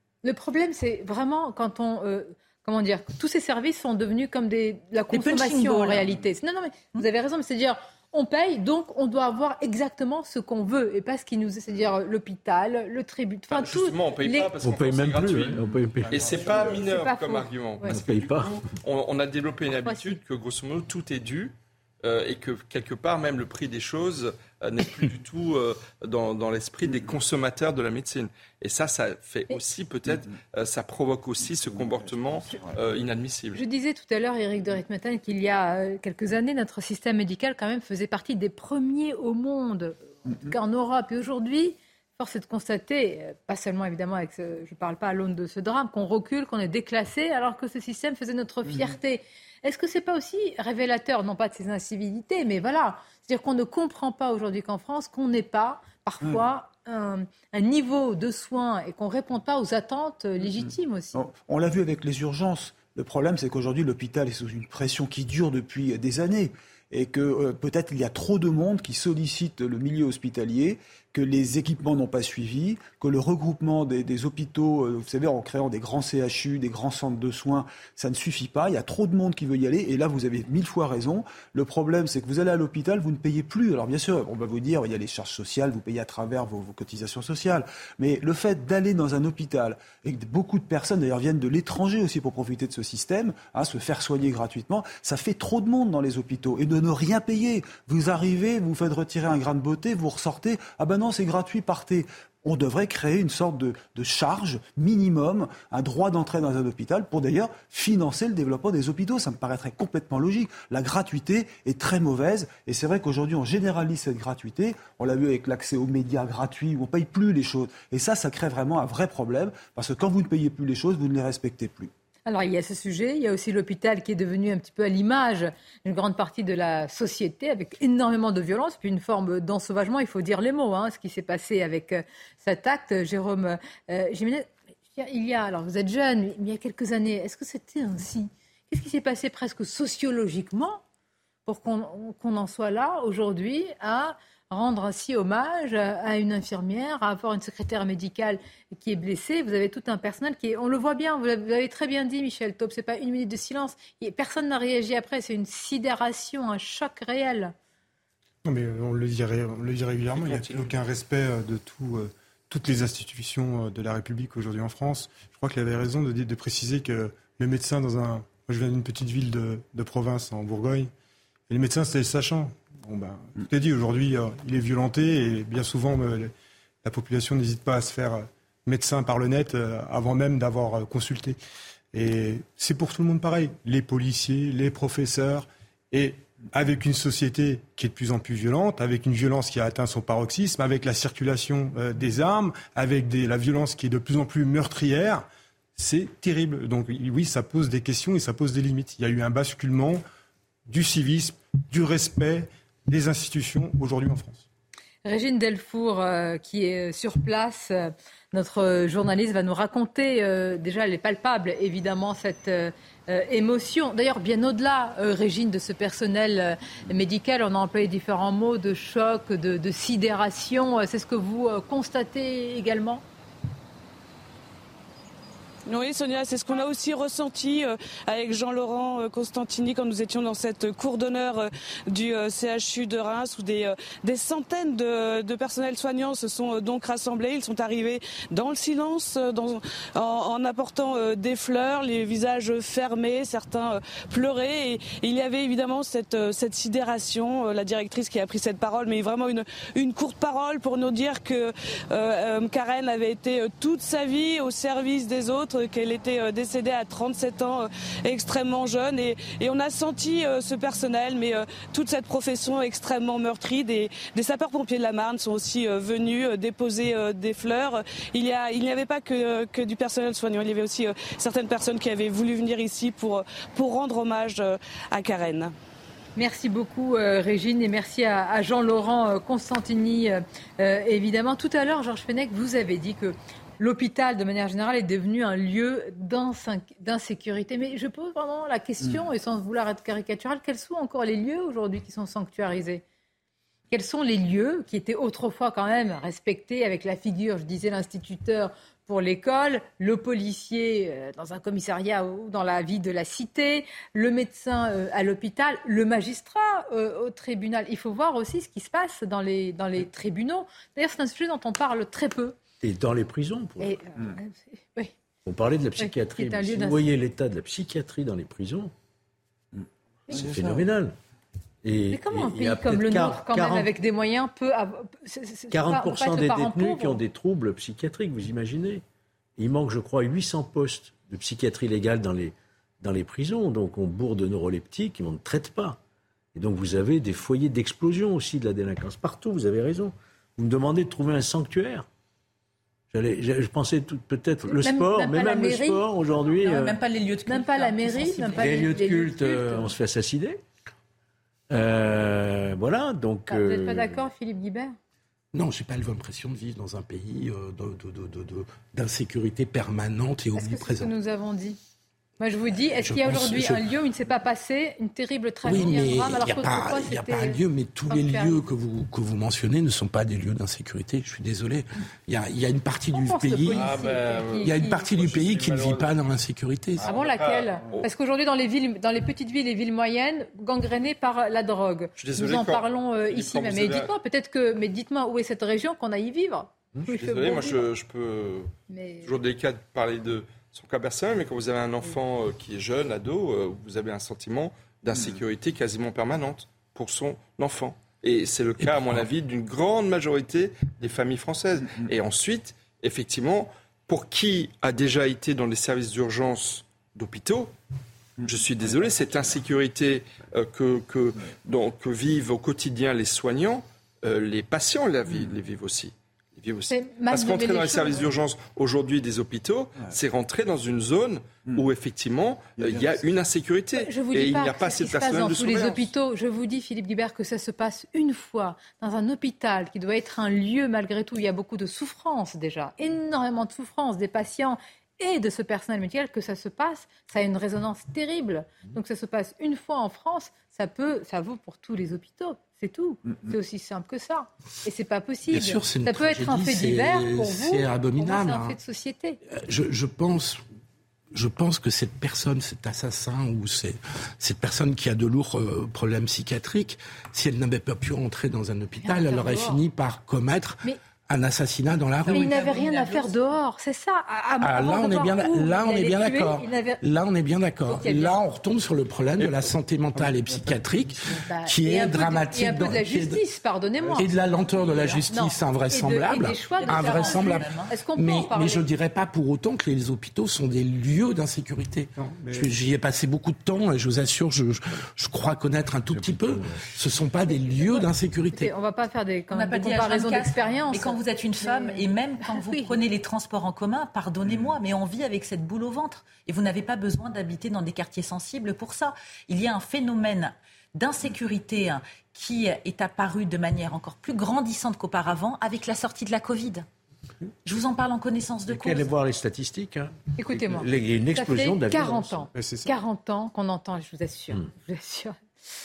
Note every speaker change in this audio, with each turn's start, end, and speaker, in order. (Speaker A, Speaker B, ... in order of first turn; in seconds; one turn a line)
Speaker A: 0.2-14.5
Speaker B: 5.1-6.1
Speaker C: 13.5-33.6
Speaker D: 14.6-16.8
Speaker A: 16.3-18.0
Speaker D: 17.9-18.6
Speaker A: 19.8-20.2
Speaker E: 31.6-32.6
Speaker A: 33.5-61.2
Speaker E: 48.7-48.9
Speaker E: 60.6-121.9
Speaker A: 122.3-140.8
Speaker A: 141.5-157.5
Speaker F: 158.4-170.9
Speaker C: 160.2-160.5
Speaker F: 171.5-181.4
Speaker F: 181.9-195.2
Speaker F: 195.8-200.0
Speaker F: 200.7-204.4
Speaker A: 205.0-223.0
Speaker G: 225.7-275.5
Speaker A: 276.1-292.8
Speaker A: 293.7-312.4
Speaker D: 312.6-313.8
Speaker A: 313.6-314.9
Speaker D: 315.2-318.7
Speaker A: 315.8-316.8
Speaker D: 320.1-320.9
Speaker D: 321.6-323.7
Speaker A: 321.9-327.0
Speaker D: 325.5-328.8
Speaker D: 329.4-335.8
Speaker D: 336.3-341.9
Speaker D: 342.9-346.8
Speaker A: 344.5-345.8
Speaker B: 346.4-348.7
Speaker A: 347.2-349.7
Speaker D: 348.4-350.4
Speaker D: 351.5-354.1
Speaker A: 353.3-354.8
Speaker H: 355.3-360.9
Speaker A: 360.4-361.6
Speaker A: 362.2-368.4
Speaker H: 362.8-363.6
Speaker H: 365.4-373.7
Speaker A: 373.0-374.9
Speaker C: 373.6-375.9
Speaker H: 374.4-376.9
Speaker C: 376.8-377.9
Speaker A: 376.8-387.6
Speaker C: 382.0-383.9
Speaker C: 386.9-388.5
Speaker A: 388.7-389.1
Speaker C: 389.0-407.5
Speaker H: 398.6-399.1
Speaker C: 408.2-425.9
Speaker A: 416.7-418.1
Speaker E: 422.6-423.0
Speaker A: 423.7-449.2
Speaker H: 445.3-448.6
Speaker H: 449.3-450.4
Speaker H: 451.1-462.5
Speaker A: 458.8-459.6
Speaker B: 462.0-463.2
Speaker A: 462.1-466.8
Speaker H: 464.4-473.2
Speaker A: 467.7-468.2
Speaker A: 471.2-478.6
Speaker H: 474.0-488.5
Speaker B: 476.6-477.7
Speaker F: 482.0-482.5
Speaker D: 485.9-486.6
Speaker A: 488.3-492.8
Speaker B: 489.3-506.6
Speaker B: 507.4-508.9
Speaker D: 508.4-512.3
Speaker A: 510.2-515.2
Speaker F: 512.3-512.7